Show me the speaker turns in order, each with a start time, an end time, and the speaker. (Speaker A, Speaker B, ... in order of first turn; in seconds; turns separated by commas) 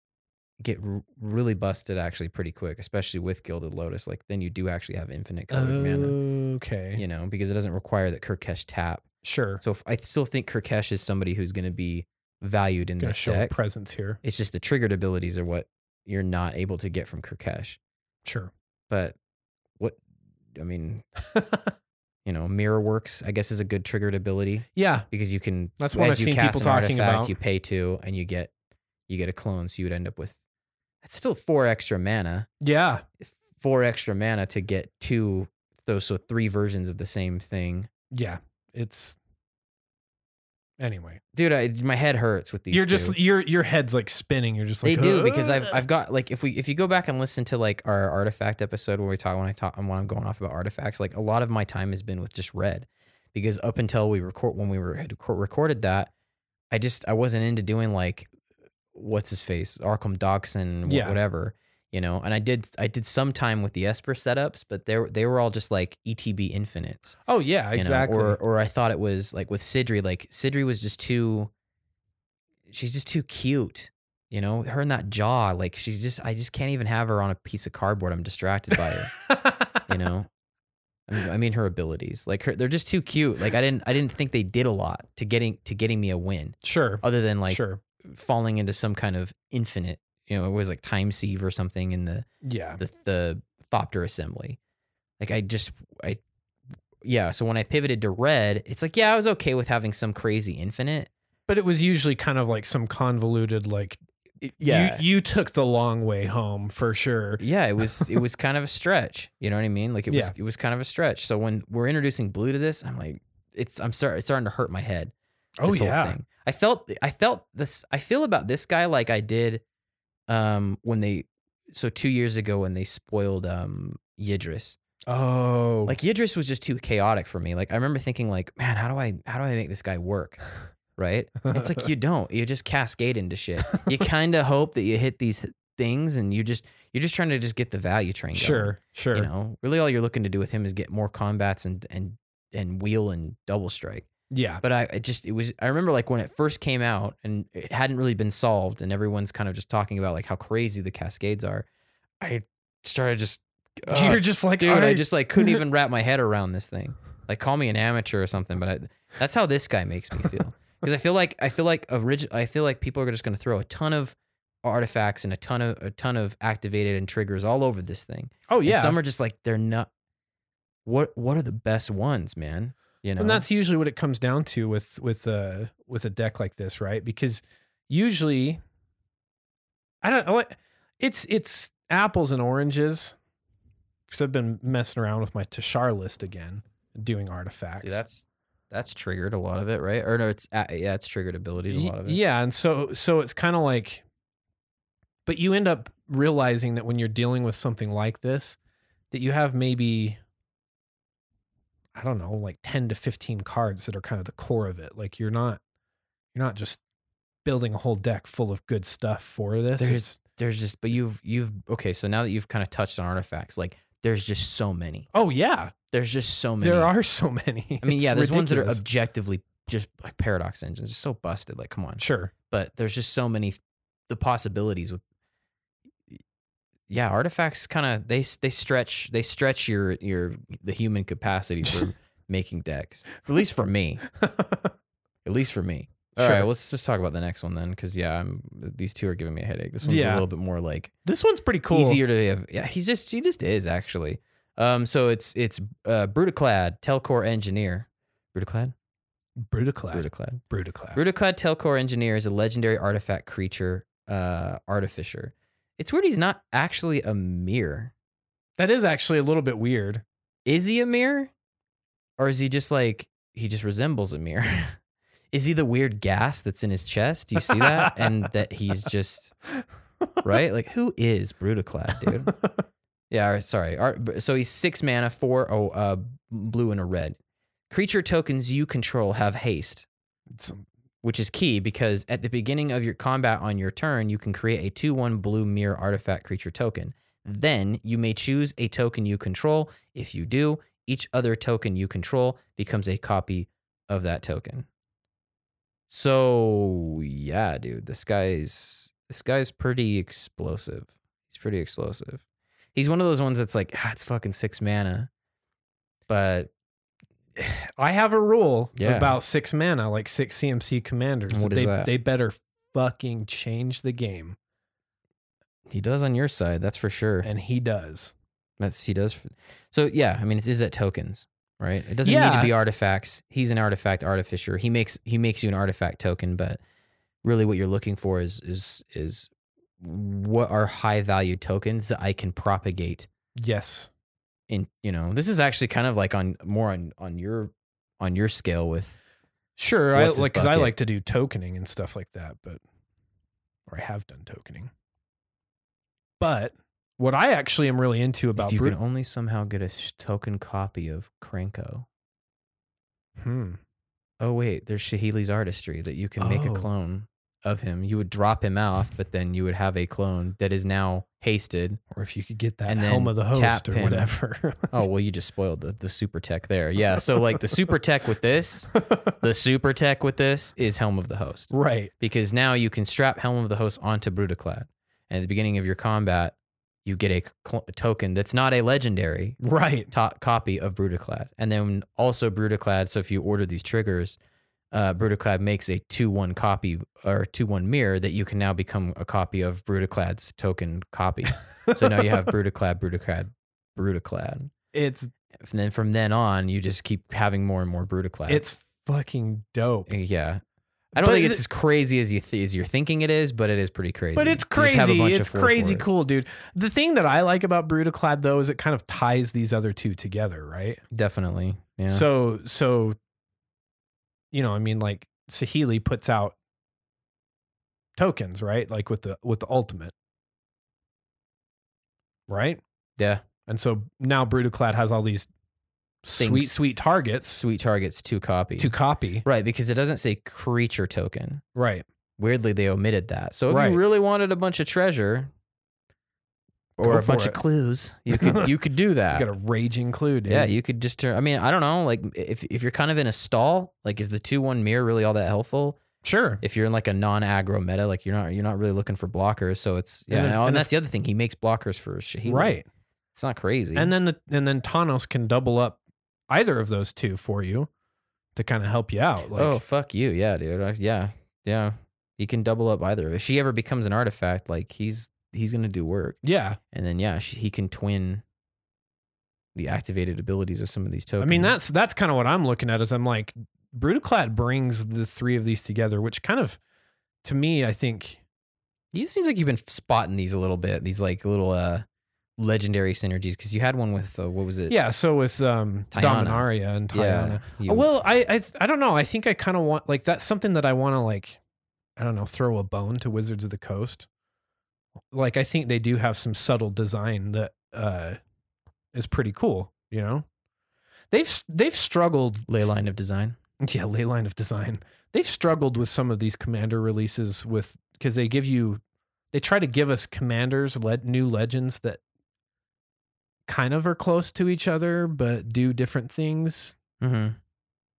Speaker A: 0.6-6.2, Speaker B: 5.5-7.0, Speaker A: 7.0-9.1, Speaker B: 9.2-9.6, Speaker A: 9.6-13.5, Speaker B: 13.0-14.2, Speaker A: 14.2-17.8, Speaker B: 18.2-18.5, Speaker A: 18.9-19.2, Speaker A: 20.6-21.1, Speaker B: 21.3-21.7, Speaker A: 22.2-28.5, Speaker B: 24.8-25.1, Speaker B: 25.8-27.4, Speaker A: 29.1-30.4, Speaker A: 31.0-32.5, Speaker B: 32.6-33.0, Speaker A: 33.2-37.9, Speaker B: 38.1-39.2, Speaker B: 40.8-41.2, Speaker A: 41.4-43.2, Speaker B: 42.7-45.8, Speaker A: 44.8-56.1, Speaker A: 56.7-58.3, Speaker A: 58.9-67.2, Speaker B: 60.9-61.2, Speaker B: 67.3-68.4, Speaker A: 67.8-71.5, Speaker A: 72.7-79.1, Speaker B: 79.3-79.7, Speaker A: 79.9-80.3, Speaker A: 81.1-92.3, Speaker B: 86.6-87.8, Speaker B: 92.4-92.8, Speaker A: 92.8-94.6, Speaker A: 95.2-96.2, Speaker A: 97.0-101.1, Speaker B: 101.5-104.0, Speaker A: 104.4-105.0, Speaker B: 104.6-107.4, Speaker A: 107.4-115.1, Speaker B: 115.6-116.2, Speaker A: 115.7-119.6, Speaker A: 120.3-124.8, Speaker B: 125.1-126.0, Speaker A: 125.9-130.4, Speaker A: 131.0-144.1, Speaker B: 131.5-131.8, Speaker B: 138.3-139.3, Speaker B: 144.3-144.6, Speaker A: 144.6-151.7, Speaker A: 152.2-169.9, Speaker B: 153.9-155.6, Speaker B: 168.5-169.0, Speaker A: 170.9-173.5, Speaker B: 173.2-178.6, Speaker B: 180.0-183.2, Speaker B: 184.1-188.0, Speaker A: 187.8-192.2, Speaker B: 191.7-194.0, Speaker B: 195.3-198.6, Speaker B: 199.1-200.2, Speaker B: 201.9-205.6, Speaker B: 206.3-206.8, Speaker B: 207.4-210.2, Speaker A: 209.8-215.1, Speaker B: 215.1-215.7, Speaker A: 215.9-216.9, Speaker B: 216.6-218.8, Speaker A: 217.8-225.0, Speaker B: 222.0-222.3, Speaker A: 226.9-234.1, Speaker B: 234.2-234.7, Speaker A: 235.2-240.9, Speaker B: 236.2-236.5, Speaker B: 239.8-240.3, Speaker B: 241.1-242.0, Speaker A: 241.7-248.7, Speaker B: 249.4-251.0, Speaker A: 249.9-250.4, Speaker A: 250.9-257.9, Speaker B: 258.6-260.0, Speaker A: 260.5-261.3, Speaker A: 262.2-264.8, Speaker A: 265.3-269.4, Speaker B: 267.5-268.0, Speaker A: 270.2-272.3, Speaker B: 272.0-272.6, Speaker A: 273.1-277.2, Speaker A: 277.7-279.9, Speaker B: 280.3-280.6, Speaker A: 281.0-294.7, Speaker A: 295.9-302.2, Speaker A: 302.8-305.1, Speaker A: 306.1-306.5, Speaker B: 307.4-314.4, Speaker A: 308.8-309.2, Speaker A: 311.3-311.9, Speaker A: 315.7-317.3, Speaker B: 317.2-318.1, Speaker A: 318.6-326.6, Speaker B: 322.0-322.5, Speaker A: 327.2-333.1, Speaker B: 333.4-333.9, Speaker A: 334.5-339.0, Speaker B: 339.6-342.6, Speaker A: 339.9-340.7, Speaker B: 343.7-344.7, Speaker B: 346.2-348.8, Speaker A: 348.4-351.9, Speaker B: 353.2-353.6, Speaker A: 354.2-361.8, Speaker B: 356.2-356.7, Speaker B: 361.9-364.9, Speaker A: 362.7-364.1, Speaker A: 364.7-379.4, Speaker B: 371.5-371.9, Speaker B: 379.4-379.9, Speaker A: 379.9-384.2, Speaker A: 384.7-394.5, Speaker B: 391.7-392.2, Speaker B: 394.7-395.1, Speaker A: 395.4-398.4, Speaker B: 398.3-399.9, Speaker A: 399.9-400.4, Speaker B: 400.9-401.4, Speaker A: 400.9-405.9, Speaker B: 404.1-410.8, Speaker A: 410.9-412.1, Speaker B: 411.9-413.0, Speaker B: 414.3-416.4, Speaker B: 418.0-419.9, Speaker B: 422.3-422.6, Speaker A: 423.0-423.2, Speaker B: 423.5-425.3, Speaker B: 426.0-427.4, Speaker A: 426.2-426.6, Speaker A: 427.4-431.4, Speaker B: 428.6-429.2, Speaker B: 431.6-431.9, Speaker A: 432.2-435.3, Speaker B: 433.5-433.8, Speaker A: 436.8-439.3, Speaker B: 436.8-437.4, Speaker B: 438.1-438.5, Speaker B: 439.1-440.5, Speaker A: 440.3-445.8, Speaker B: 446.0-446.4, Speaker A: 446.4-452.6, Speaker B: 450.1-450.7, Speaker B: 452.3-452.7, Speaker A: 453.1-453.9, Speaker B: 453.8-457.7, Speaker B: 458.4-459.6, Speaker A: 459.4-466.2, Speaker B: 466.2-466.6, Speaker A: 466.7-468.2, Speaker A: 469.6-471.6, Speaker B: 471.2-476.6, Speaker B: 477.2-478.2, Speaker A: 478.9-481.9, Speaker A: 482.4-484.8, Speaker B: 484.7-491.4, Speaker A: 485.9-487.9, Speaker B: 492.0-494.1, Speaker B: 495.1-498.2, Speaker B: 498.9-500.3, Speaker B: 501.1-502.7, Speaker A: 502.5-503.4, Speaker B: 503.6-512.0, Speaker B: 513.5-516.8, Speaker A: 517.0-517.4